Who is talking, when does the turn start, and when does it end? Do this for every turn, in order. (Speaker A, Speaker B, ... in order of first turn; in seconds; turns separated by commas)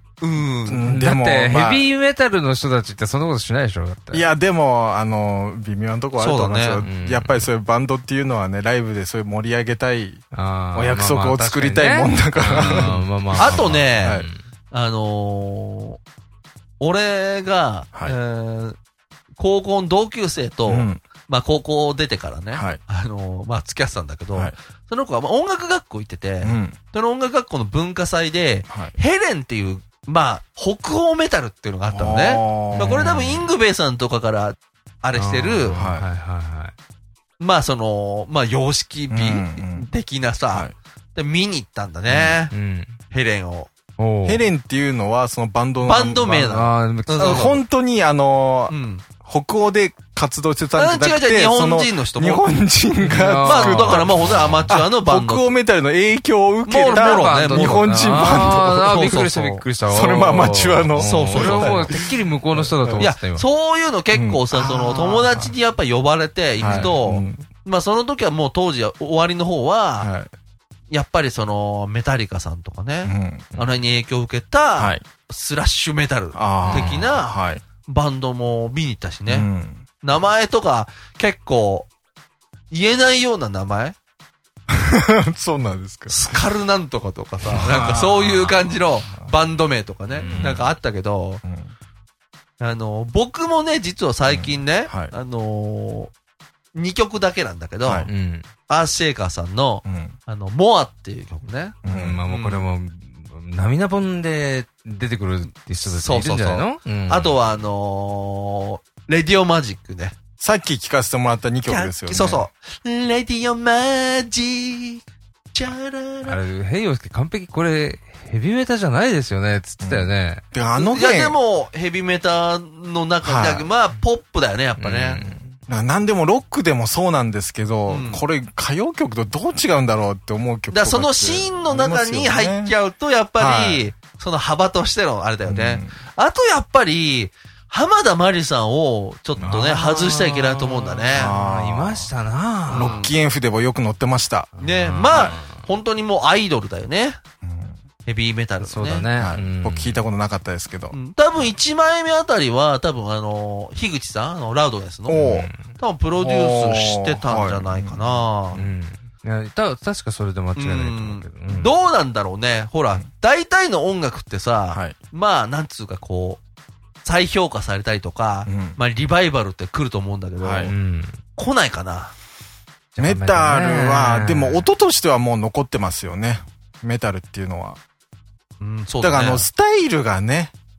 Speaker A: 0.2-0.9, Speaker B: 0.6-1.9, Speaker C: 0.8-4.2, Speaker B: 4.1-10.2, Speaker A: 6.2-6.8, Speaker C: 6.8-7.5, Speaker C: 10.3-14.4, Speaker B: 10.7-14.3, Speaker A: 12.5-16.0, Speaker A: 16.8-18.8, Speaker A: 19.4-35.8, Speaker B: 20.7-21.0, Speaker B: 22.5-22.8, Speaker B: 26.4-26.8, Speaker B: 28.7-28.9, Speaker B: 31.9-33.1, Speaker C: 32.7-33.5, Speaker C: 35.1-36.7, Speaker B: 35.7-36.1, Speaker A: 37.4-42.5, Speaker B: 39.1-39.9, Speaker B: 42.1-42.4, Speaker C: 42.5-42.9, Speaker A: 43.1-43.7, Speaker C: 44.0-44.5, Speaker B: 44.2-46.5, Speaker A: 45.8-47.6, Speaker C: 46.4-47.5, Speaker B: 47.1-59.1, Speaker A: 48.7-49.0, Speaker A: 50.8-52.5, Speaker C: 53.0-54.7, Speaker A: 53.4-55.5, Speaker A: 56.6-59.6, Speaker C: 56.8-63.4, Speaker B: 59.8-63.1, Speaker A: 61.0-62.0, Speaker A: 63.0-70.1, Speaker B: 64.1-65.5, Speaker C: 66.6-67.0, Speaker B: 66.6-67.4, Speaker B: 70.0-70.3, Speaker A: 70.9-79.5, Speaker B: 73.0-73.6, Speaker B: 74.8-75.0, Speaker B: 76.3-77.6, Speaker C: 76.6-77.1, Speaker B: 79.3-79.9, Speaker A: 80.0-81.9, Speaker A: 82.7-84.0, Speaker B: 84.7-86.4, Speaker A: 86.1-91.4, Speaker B: 87.4-89.3, Speaker B: 90.2-90.7, Speaker C: 90.2-90.6, Speaker B: 91.4-91.7, Speaker A: 92.6-96.1, Speaker B: 94.3-95.1, Speaker A: 96.8-98.1, Speaker B: 97.8-98.1, Speaker C: 98.1-98.5, Speaker A: 98.7-101.8, Speaker B: 99.8-100.2, Speaker B: 101.8-102.2, Speaker C: 101.8-107.4, Speaker A: 102.3-102.7, Speaker A: 105.8-110.2, Speaker B: 110.4-112.5, Speaker A: 111.7-116.4, Speaker C: 116.2-120.4, Speaker B: 119.8-121.4, Speaker A: 120.8-125.2, Speaker B: 123.2-123.7, Speaker C: 124.8-125.6, Speaker B: 125.2-132.7, Speaker A: 127.9-128.2, Speaker A: 130.7-141.3, Speaker B: 133.4-133.9, Speaker B: 135.4-135.9, Speaker B: 139.4-139.7, Speaker C: 139.4-143.0, Speaker B: 141.1-142.1, Speaker B: 142.7-144.5, Speaker A: 142.7-143.1, Speaker C: 144.5-145.6, Speaker A: 144.6-147.2, Speaker B: 147.4-147.8, Speaker A: 148.1-149.1, Speaker C: 148.6-150.0, Speaker B: 149.2-150.9, Speaker A: 150.9-158.6, Speaker B: 155.1-155.5, Speaker C: 155.1-155.8, Speaker B: 156.2-158.7, Speaker C: 158.5-161.7, Speaker A: 160.6-166.4, Speaker A: 167.0-170.7, Speaker B: 168.4-168.8, Speaker B: 170.4-170.7, Speaker C: 170.7-171.2, Speaker A: 171.3-172.1, Speaker C: 172.9-174.7, Speaker B: 173.0-177.8, Speaker A: 178.6-179.5, Speaker B: 179.0-180.5